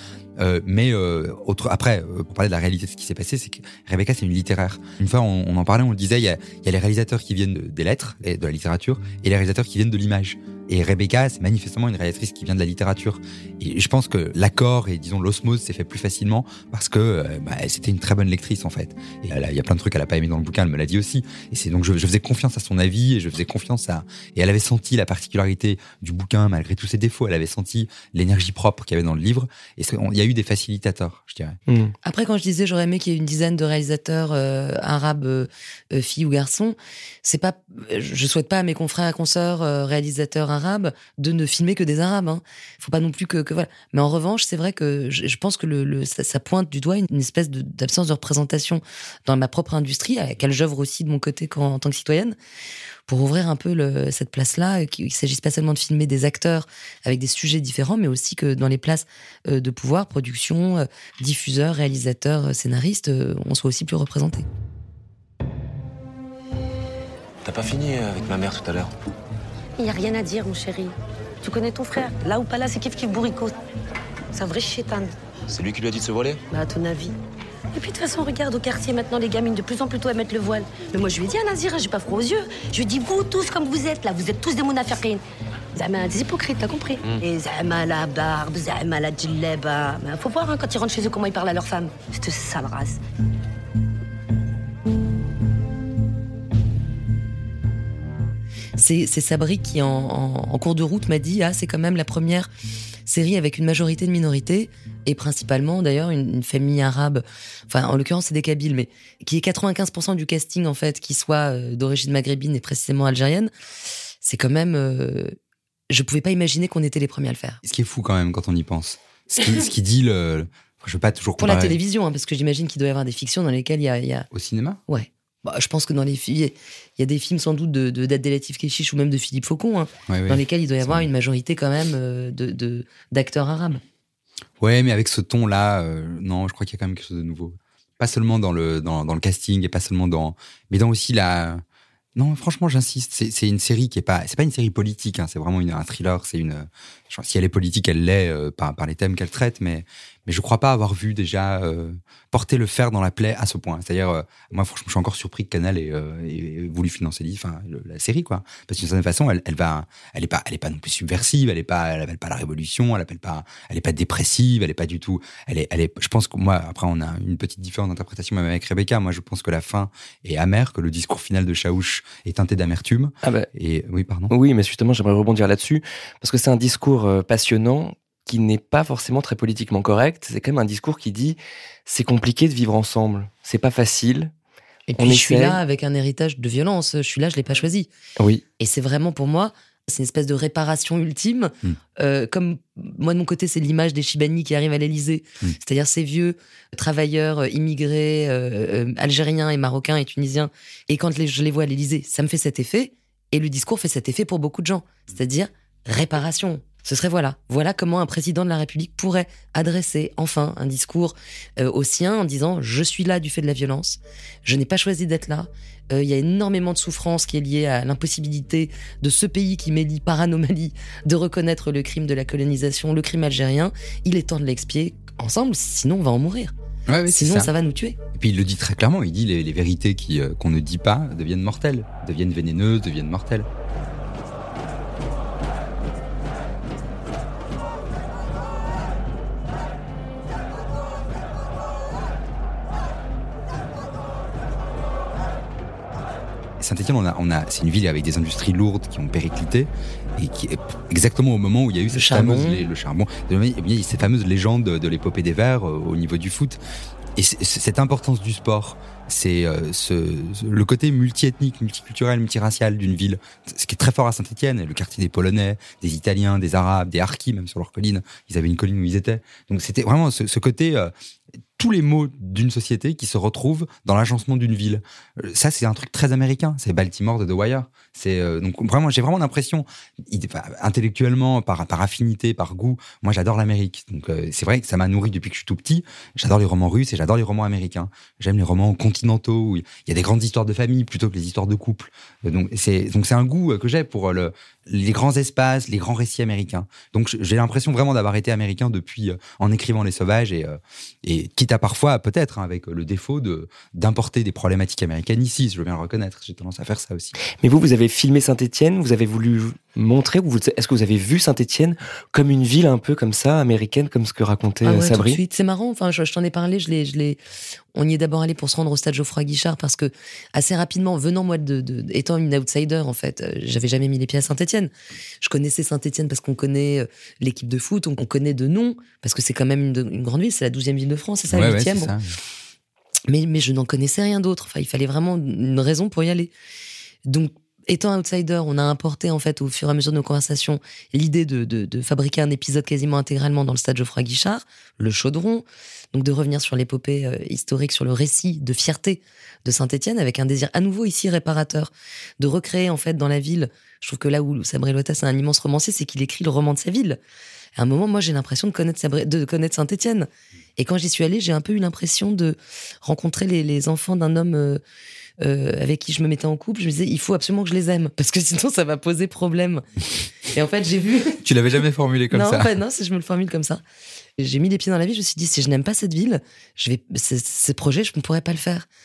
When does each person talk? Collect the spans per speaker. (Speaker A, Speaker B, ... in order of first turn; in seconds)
Speaker A: 0.4-31.6, 117.6-121.8, 124.3-124.8, 130.1-131.1, 134.6-141.6, 142.2-174.3, 226.9-227.5, 228.2-233.5, 246.6-256.6, 257.2-270.9, 271.6-307.1, 331.3-332.1, 371.2-372.6
Speaker B: 31.7-31.9, 173.2-173.5, 174.3-184.3, 185.0-185.6, 188.2-188.4, 307.2-315.2
Speaker C: 32.0-52.3, 53.1-64.5, 98.8-102.5, 103.1-113.5, 114.2-115.3, 115.9-117.6, 121.4-124.3, 124.9-133.8, 184.9-187.9, 188.6-226.5, 227.1-228.0, 251.9-252.7, 314.7-317.2, 317.7-331.9, 333.1-336.3, 337.1-357.0, 357.6-364.6, 365.2-369.6, 370.2-371.2, 372.1-373.6, 374.2-378.7
Speaker D: 67.4-68.9, 75.5-76.4
Speaker E: 69.8-73.6, 74.3-75.1, 76.5-77.2, 77.7-85.2, 85.8-93.0